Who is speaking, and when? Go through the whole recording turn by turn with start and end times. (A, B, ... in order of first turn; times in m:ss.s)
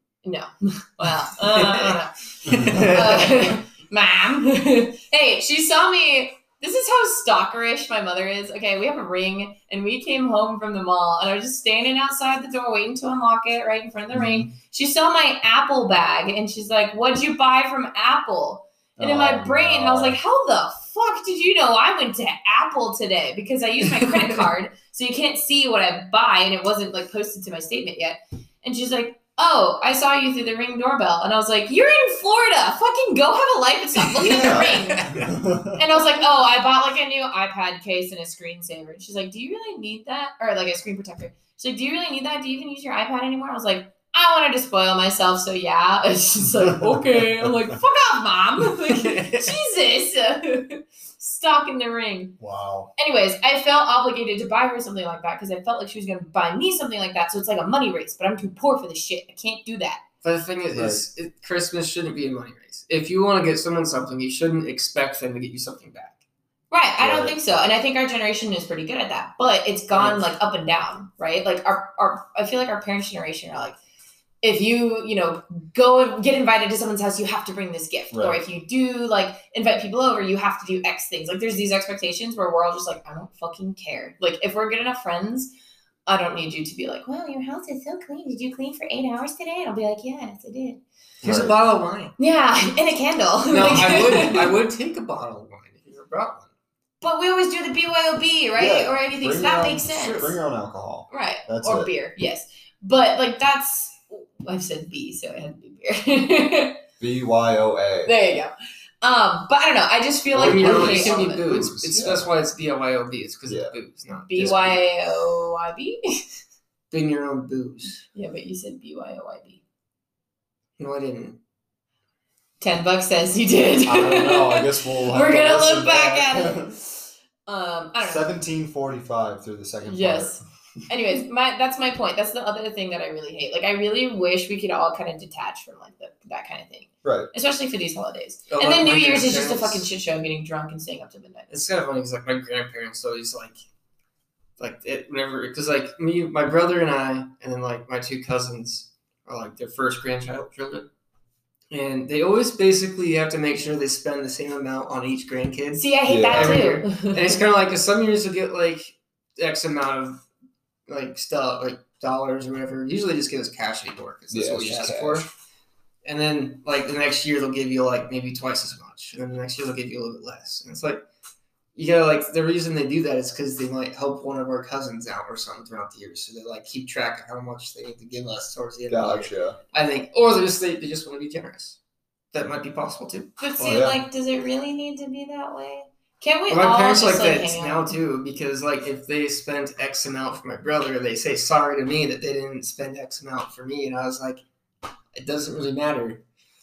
0:00.2-0:35.2 A
0:01.4-0:03.6 B
0:14.1-0:14.5 C
0:19.0-0:20.2 C
0:24.0-0:24.3 B
0:34.1-0:35.3 B
0:34.2-0:35.8 C
0:35.8-0:52.4 A
0:46.8-0:47.5 C
0:48.8-0:49.6 B
0:52.4-0:52.9 C
0:53.0-1:00.0 A
1:00.2-1:06.2 B
1:00.7-1:01.0 C
1:06.7-1:13.8 A
1:07.0-1:07.4 C
1:09.9-1:10.3 B
1:14.4-1:25.5 A
1:18.1-1:18.4 C
1:26.1-1:30.8 A
1:31.2-1:32.2 B
1:31.2-1:31.6 C
1:32.2-1:34.5 A
1:33.5-1:36.5 B
1:37.0-1:40.4 A
1:38.6-1:41.9 C
1:39.9-1:40.3 B
1:41.1-1:46.8 A
1:47.0-1:48.2 C
1:48.0-1:51.5 A
1:50.3-1:52.3 C
1:50.4-1:54.7 B
1:53.5-1:53.7 C
1:54.3-1:56.2 A
1:54.3-1:54.8 C
1:56.9-1:58.0 B
1:58.1-1:59.6 A
2:00.8-2:01.4 B
2:02.6-2:08.3 A
2:03.8-2:06.8 C
2:08.0-2:10.4 C
2:09.8-2:21.5 A
2:17.0-2:17.3 C
2:18.5-2:19.9 B
2:21.5-2:23.6 B
2:24.6-2:30.9 B
2:31.7-2:40.2 B
2:35.8-2:37.4 A
2:36.1-2:36.7 C
2:40.9-2:45.3 B
2:44.3-2:45.3 C
2:46.0-2:51.0 B
2:51.8-3:01.8 B
2:58.9-2:59.6 C
3:02.3-3:03.8 B
3:03.4-3:08.0 A
3:03.6-3:04.0 C
3:06.5-3:14.4 B
3:15.1-3:16.2 B